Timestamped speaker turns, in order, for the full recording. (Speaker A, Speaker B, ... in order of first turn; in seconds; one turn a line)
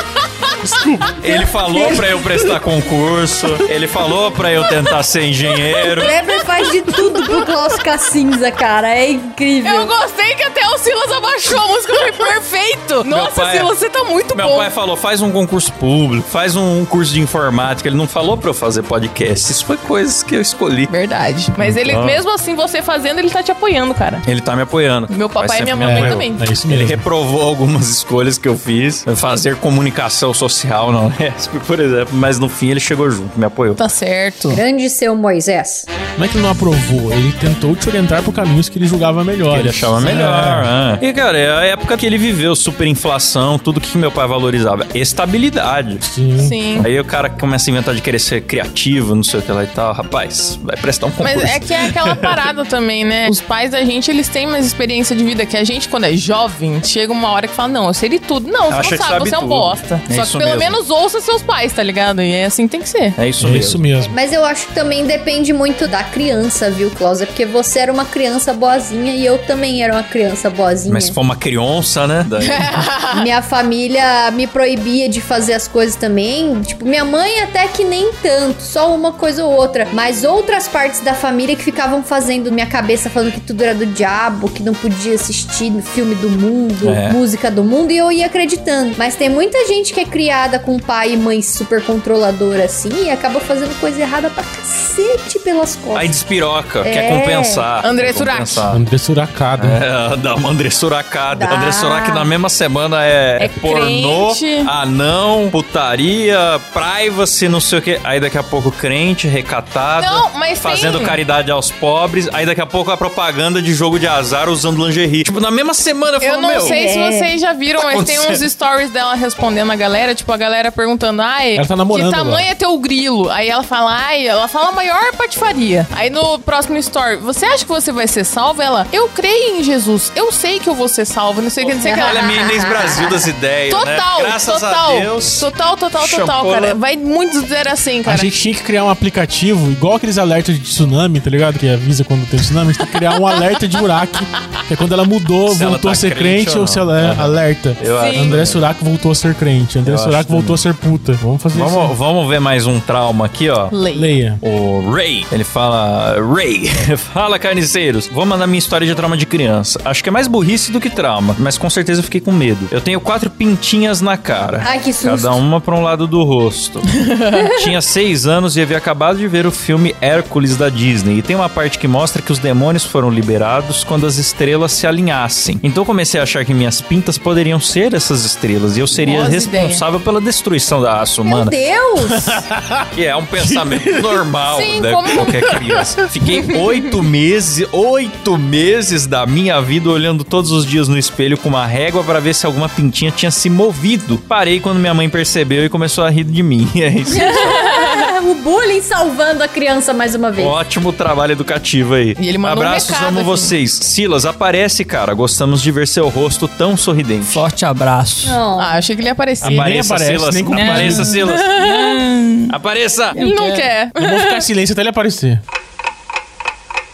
Speaker A: 0.6-1.4
Speaker B: 1.2-6.1
Speaker C: 1.7-2.0
Speaker C: 6.0-9.9
Speaker D: 9.6-14.7
Speaker B: 13.1-13.7
Speaker B: 14.3-20.9
Speaker D: 20.9-24.2
Speaker B: 21.6-22.2
Speaker B: 24.2-33.8
Speaker D: 25.1-26.5
Speaker A: 25.8-27.1
Speaker D: 33.8-34.6
Speaker C: 34.5-35.9
Speaker A: 36.2-40.7
Speaker B: 39.5-46.0
Speaker A: 46.0-46.6
Speaker D: 46.4-46.9
Speaker B: 46.8-52.5
Speaker D: 51.2-63.2
Speaker B: 58.7-60.8
Speaker B: 63.2-63.9
Speaker A: 63.4-64.1
Speaker C: 64.1-71.2
Speaker B: 70.9-72.8
Speaker D: 72.4-73.3
Speaker C: 73.1-96.2
Speaker B: 86.8-87.2
Speaker B: 95.9-98.8
Speaker C: 96.8-97.7
Speaker D: 97.8-98.6
Speaker A: 98.7-99.8
Speaker B: 99.6-116.8
Speaker C: 101.3-102.3
Speaker D: 103.4-104.7
Speaker D: 110.0-111.2
Speaker D: 116.2-132.3
Speaker C: 116.6-117.3
Speaker B: 117.8-118.4
Speaker A: 121.6-122.5
Speaker B: 131.6-136.8
Speaker C: 131.8-133.2
Speaker D: 133.7-138.3
Speaker A: 138.1-151.9
Speaker B: 145.5-148.6
Speaker D: 147.9-148.4
Speaker B: 149.8-150.6
Speaker B: 151.5-153.8
Speaker D: 153.7-154.1
Speaker A: 153.9-154.4
Speaker B: 154.4-181.6
Speaker C: 164.6-165.4
Speaker D: 179.0-179.8
Speaker C: 181.2-182.4
Speaker A: 182.4-184.3
Speaker B: 182.9-197.6
Speaker D: 184.4-185.4
Speaker A: 185.2-186.1
Speaker D: 186.5-186.8
Speaker C: 197.1-200.6
Speaker D: 197.4-198.1
Speaker B: 200.4-207.4
Speaker D: 202.2-203.5
Speaker E: 207.2-208.4
Speaker C: 208.2-208.8
Speaker D: 208.6-209.8
Speaker A: 209.4-211.1
Speaker B: 209.4-211.6
Speaker E: 210.5-212.6
Speaker D: 211.2-212.0
Speaker B: 212.5-213.2
Speaker E: 213.2-213.7
Speaker D: 213.2-214.5
Speaker A: 213.9-215.4